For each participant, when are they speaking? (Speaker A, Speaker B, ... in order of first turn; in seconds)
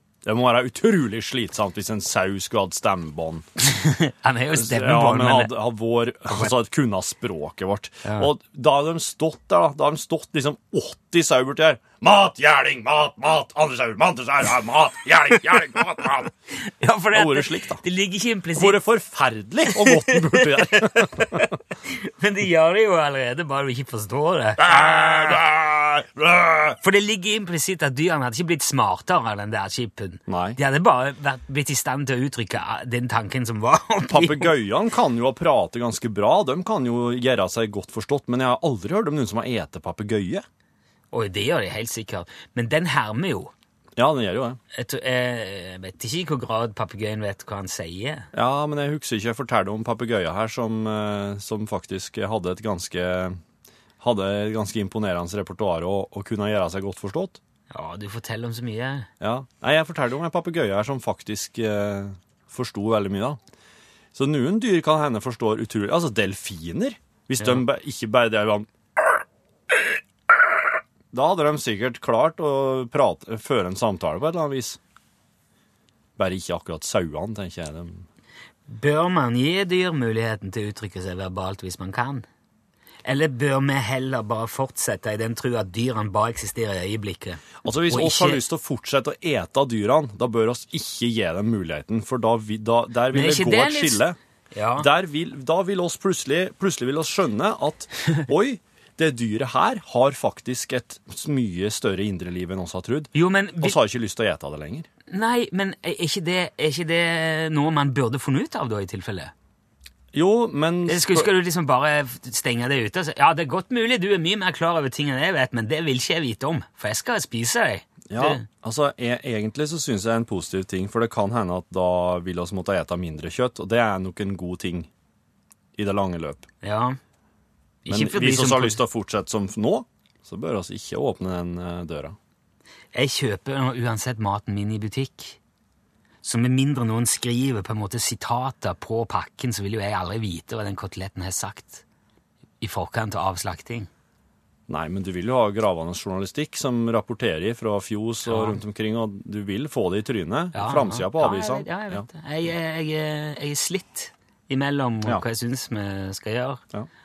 Speaker A: 0.2-3.5, 4.5-16.3, 17.1-17.8, 18.6-21.6, 24.6-26.8, 30.3-30.6, 34.1-40.5, 44.0-44.6, 48.3-53.4, 54.0-57.4, 59.2-63.4, 64.1-69.2, 71.1-74.8, 76.2-78.1, 87.6-94.2, 94.8-104.9, 110.1-111.3, 118.1-124.9, 125.8-126.5, 127.9-132.2, 144.7-152.1
Speaker B: 3.6-5.5, 8.1-8.3, 16.6-18.8, 19.7-25.4, 26.8-34.5, 41.1-43.5, 44.7-48.3, 57.7-59.1, 78.7-82.3, 83.0-88.4, 93.1-94.9, 103.1-103.8, 105.1-109.3, 110.9-118.5, 126.6-127.0, 127.8-128.8, 132.9-135.4, 136.2-141.8, 142.6-143.9, 148.3-148.6, 150.5-156.6